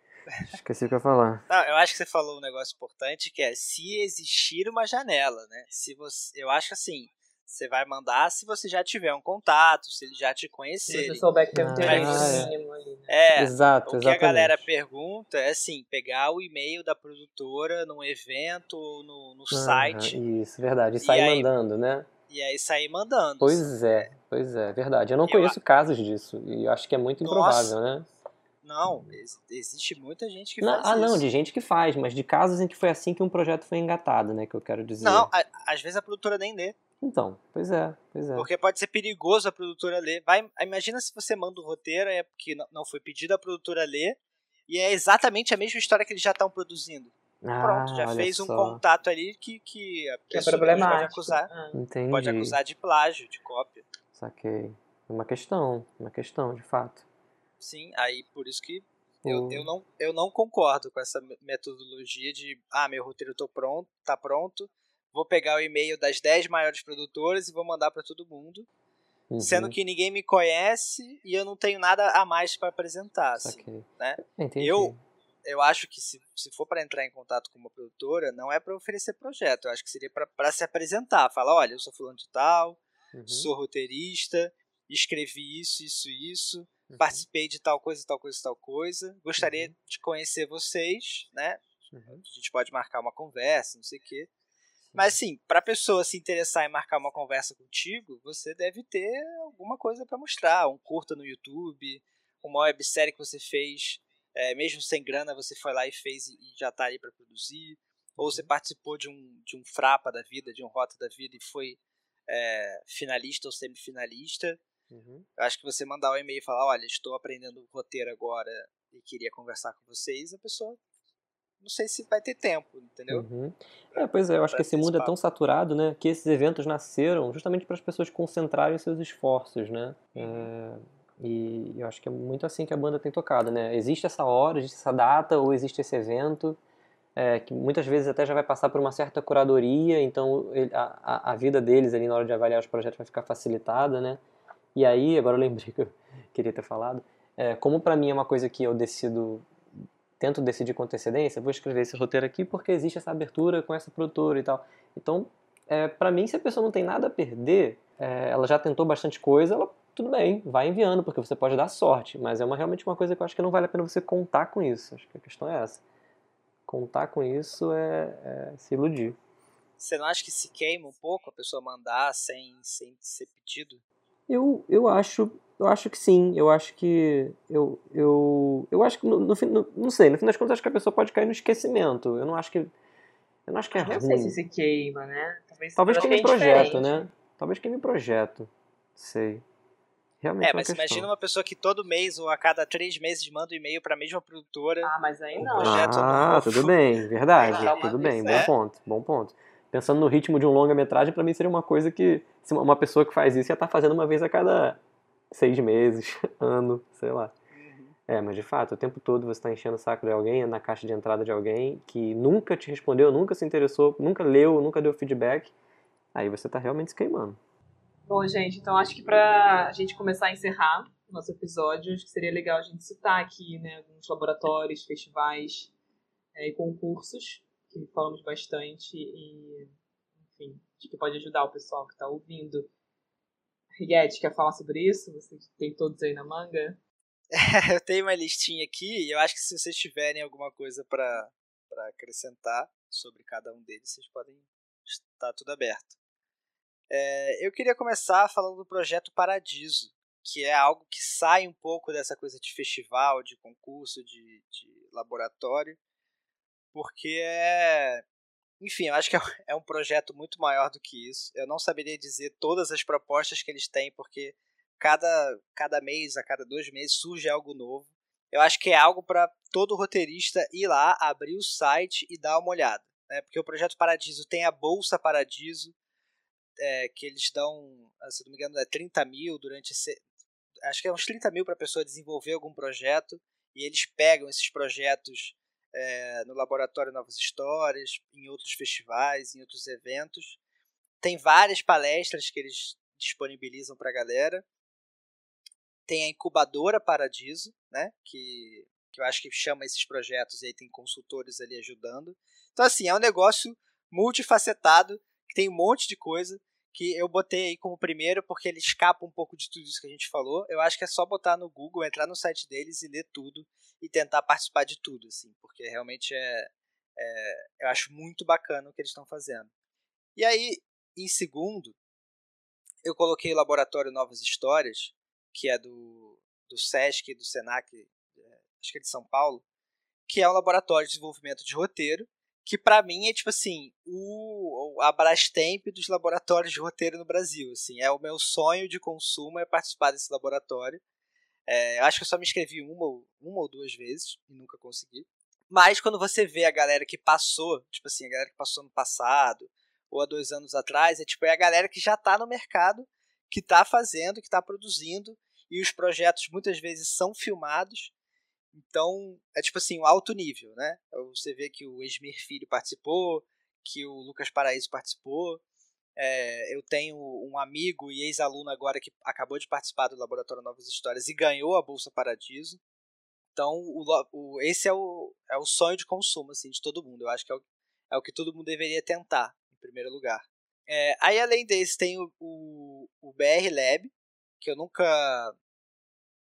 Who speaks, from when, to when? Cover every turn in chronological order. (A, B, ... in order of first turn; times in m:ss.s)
0:00.4-0:01.5 A
0:01.5-0:12.5 B
0:10.8-0:13.2 C
0:11.5-0:12.5 A
0:13.1-0:20.2 B
0:13.4-0:14.7 A
0:19.5-0:22.1 A
0:21.0-0:21.5 B
0:22.3-0:24.1 B
0:23.4-0:28.1 A
0:25.2-0:25.6 B
0:27.2-0:27.8 B
0:28.6-0:31.3 B
0:30.6-0:35.3 A
0:35.0-0:36.8 B
0:37.0-0:38.5 A
0:38.4-0:51.5 B
0:47.4-0:48.8 A
0:50.3-0:51.8 C
0:51.7-0:52.6 A
0:52.1-0:53.8 B
0:54.1-0:57.0 A
0:57.6-1:08.7 B
0:59.2-0:59.7 A
1:09.3-1:09.8 A
1:09.4-1:34.3 B
1:13.4-1:15.0 A
1:23.1-1:23.5 A
1:26.9-1:27.2 A
1:29.4-1:29.7 A
1:31.9-1:32.2 A
1:34.9-1:35.2 A
1:35.0-1:54.6 B
1:48.2-1:48.5 A
1:54.9-1:55.3 A
1:55.4-2:00.8 B
2:01.6-2:03.3 B
2:03.1-2:16.6 A
2:03.9-2:05.1 B
2:10.2-2:10.5 C
2:17.2-2:24.2 A
2:24.8-2:29.5 A
2:30.2-2:45.8 A
2:46.7-2:49.2 A
2:49.8-2:53.8 B
2:54.3-3:02.7 A
3:03.5-3:04.4 A
3:03.7-3:07.1 C
3:05.8-3:09.4 A
3:10.2-3:11.1 A
3:10.4-3:16.8 B
3:14.8-3:16.2 C
3:15.5-3:24.8 A
3:17.4-3:18.5 B
3:17.4-3:18.5 C
3:25.3-3:27.3 A
3:27.5-3:28.0 B
3:28.1-3:35.5 A
3:36.1-3:37.4 A
3:38.1-3:45.7 C
3:46.4-3:49.7 C
3:50.3-3:52.7 C
3:53.8-3:56.8 C
3:57.3-4:06.0 B
4:06.9-4:15.8 B
4:16.7-4:18.0 B
4:18.6-4:35.8 B
4:36.6-4:40.0 B
4:40.6-4:50.4 B
4:51.0-4:54.4 B
4:55.9-5:19.5 B
5:20.2-5:21.8 B
5:22.8-5:29.4 B
5:30.1-5:40.8 B
5:41.5-5:57.9 B
5:58.5-6:05.4 B
6:06.0-6:12.6 B
6:13.4-6:25.4 B